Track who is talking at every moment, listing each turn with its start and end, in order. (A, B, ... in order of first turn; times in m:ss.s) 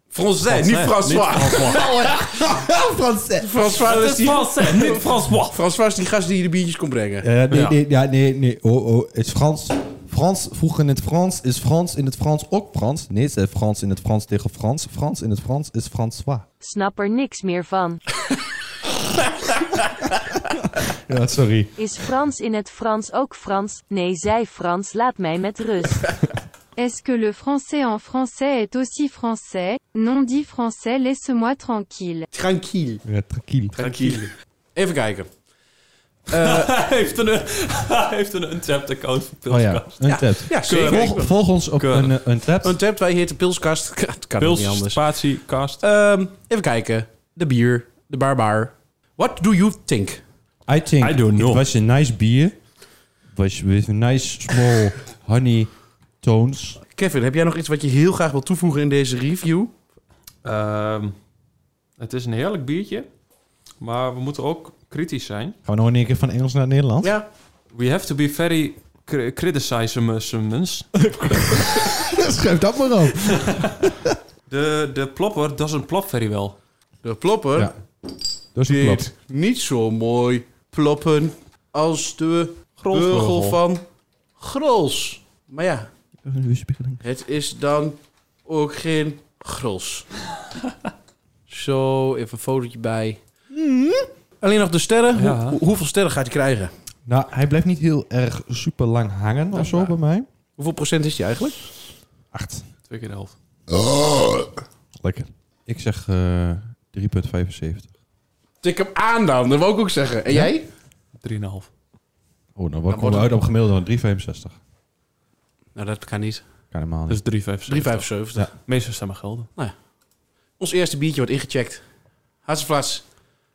0:00.1-0:01.8 A
0:00.4-0:02.2 B
0:01.3-0:03.5 C
0:03.4-0:07.3 A
0:03.7-0:05.6 B
0:07.2-0:16.4 C
0:07.5-0:07.8 B
0:16.6-0:18.0 D
0:20.7-0:21.7 C
0:21.8-0:26.0 D
0:26.8-0:32.3 E
0:32.3-0:33.0 A
0:33.0-0:33.8 C
0:33.7-0:35.3 A
0:33.8-0:34.3 B
0:36.3-0:42.2 B
0:36.3-0:36.7 A
0:39.5-0:42.8 C
0:40.0-0:41.3 A
0:42.6-0:45.0 A
0:44.4-0:45.8 B
0:45.8-0:50.2 A
0:50.7-0:52.5 C
0:51.0-0:51.6 B
0:53.3-0:56.8 C
0:56.8-0:59.7 A
1:00.4-1:01.2 B
1:02.0-1:03.1 B
1:03.8-1:05.6 B
1:05.6-1:07.1 C
1:07.0-1:07.3 A
1:07.7-1:10.9 B
1:11.0-1:14.1 C
1:13.4-1:13.9 B
1:14.5-1:16.6 B
1:17.0-1:17.7 A
1:18.5-1:19.1 C
1:18.7-1:23.8 A
1:22.8-1:23.6 B
1:24.4-1:25.9 A
1:26.2-1:27.0 C
1:27.0-1:30.1 A
1:31.5-1:33.2 A
1:33.5-1:34.1 C
1:34.4-1:36.7 A
1:35.1-1:35.6 B
1:37.1-1:40.3 C
1:39.5-1:39.9 B
1:40.6-1:41.7 A
1:42.3-1:42.6 C
1:42.8-1:43.3 B
1:43.7-1:44.4 C
1:45.0-1:47.9 C
1:48.6-1:50.6 A
1:51.1-1:51.7 B
1:52.6-1:54.6 C
1:52.9-1:53.4 A
1:55.7-1:56.4 A
1:56.7-1:57.2 C
1:57.1-1:59.5 B
1:57.7-1:58.5 A
2:00.6-2:01.8 A
2:02.4-2:03.0 A